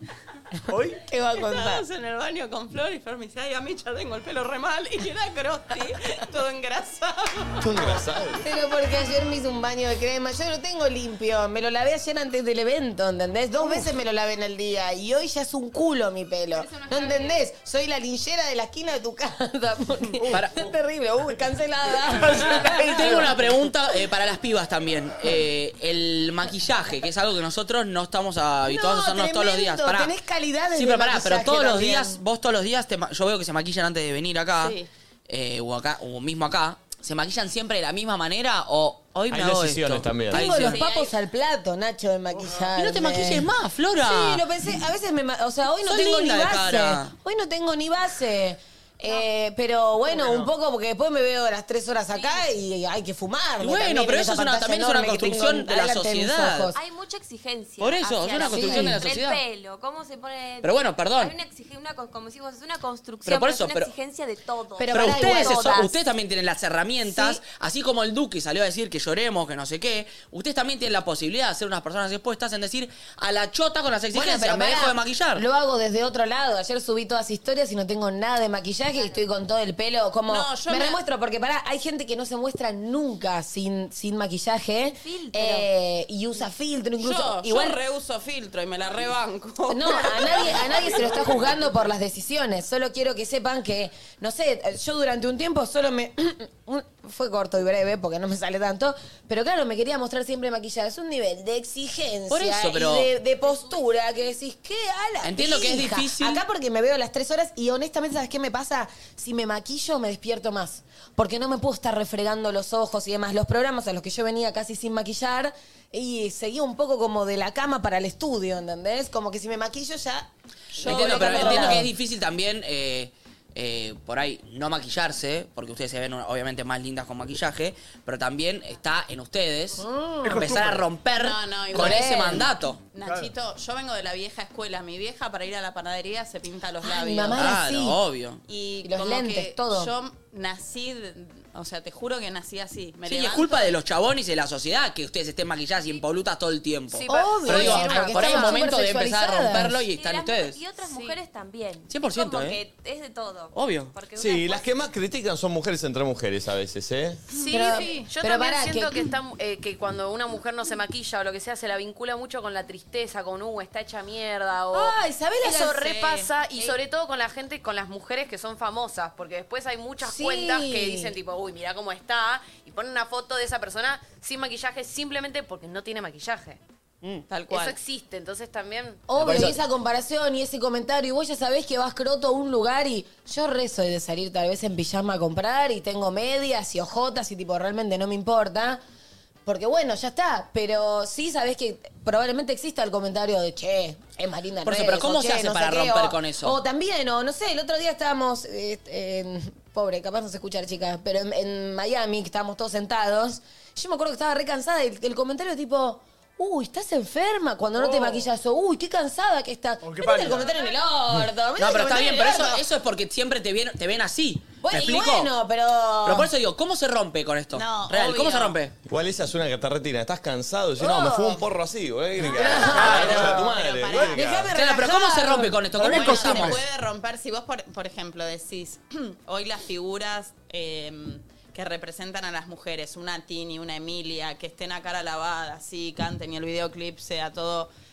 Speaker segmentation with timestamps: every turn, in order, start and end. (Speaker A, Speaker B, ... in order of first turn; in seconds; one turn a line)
Speaker A: 0.7-1.0
Speaker B: 1.1-7.7
Speaker C: 1.3-1.8
Speaker D: 7.6-8.4
Speaker C: 8.4-23.3
Speaker E: 16.9-17.3
Speaker A: 20.2-20.5
Speaker F: 20.3-20.6
Speaker A: 22.1-23.4
Speaker F: 22.6-30.1
Speaker C: 28.7-32.2
Speaker F: 30.7-40.8
Speaker B: 34.6-34.9
Speaker D: 39.3-40.8
Speaker C: 40.3-43.5
Speaker B: 40.8-41.1
Speaker A: 42.3-42.7
Speaker F: 42.8-44.4
Speaker C: 44.0-56.8
Speaker F: 45.8-47.1
Speaker A: 50.0-50.5
Speaker E: 52.1-52.5
Speaker F: 53.6-56.7
Speaker E: 56.7-65.9
Speaker F: 57.8-59.4
Speaker C: 58.4-59.0
Speaker F: 60.6-61.4
Speaker F: 63.2-63.9
Speaker C: 64.8-65.7
Speaker F: 64.9-75.4
Speaker C: 67.1-67.4
Speaker C: 74.1-87.8
Speaker B: 80.3-81.0
Speaker E: 85.0-85.7
Speaker B: 87.0-90.8
Speaker C: 89.7-120.3
Speaker A: 90.6-91.6
Speaker F: 102.3-103.1
Speaker E: 103.4-104.2
Speaker F: 105.2-106.4
Speaker B: 120.8-121.8
Speaker C: 120.8-121.9
Speaker F: 120.8-132.8
Speaker C: 129.8-130.4
Speaker A: 130.2-130.8
Speaker B: 131.1-132.3
Speaker C: 131.7-132.5
Speaker B: 132.9-137.4
Speaker A: 133.0-133.3
Speaker C: 136.8-138.0
Speaker F: 137.3-138.4
Speaker B: 138.5-143.7
Speaker C: 138.8-139.9
Speaker F: 143.0-150.6
Speaker C: 147.1-149.8
Speaker E: 147.2-148.6
Speaker G: 147.5-148.2
Speaker E: 149.9-154.7
Speaker F: 151.9-152.6
Speaker F: 153.5-153.9
Speaker D: 154.1-157.2
Speaker G: 157.3-176.6
Speaker C: 157.5-159.1
Speaker C: 164.7-165.8
Speaker B: 165.4-166.7
Speaker C: 170.0-171.1
Speaker B: 177.3-177.8
Speaker G: 177.5-179.1
Speaker C: 179.1-188.8
Speaker C: 189.4-212.6
Speaker F: 194.6-196.6
Speaker A: 207.8-208.3
Speaker A: 209.8-210.6
Speaker F: 211.6-215.3
Speaker C: 214.6-216.3
Speaker F: 216.0-218.7
Speaker B: 217.5-218.6
Speaker D: 218.9-224.5
Speaker C: 220.8-221.4
Speaker C: 222.2-223.4
Speaker B: 222.6-224.2
Speaker A: 222.6-224.1
Speaker C: 224.1-225.6
Speaker F: 224.5-226.6
Speaker A: 225.8-226.6
Speaker B: 225.8-237.7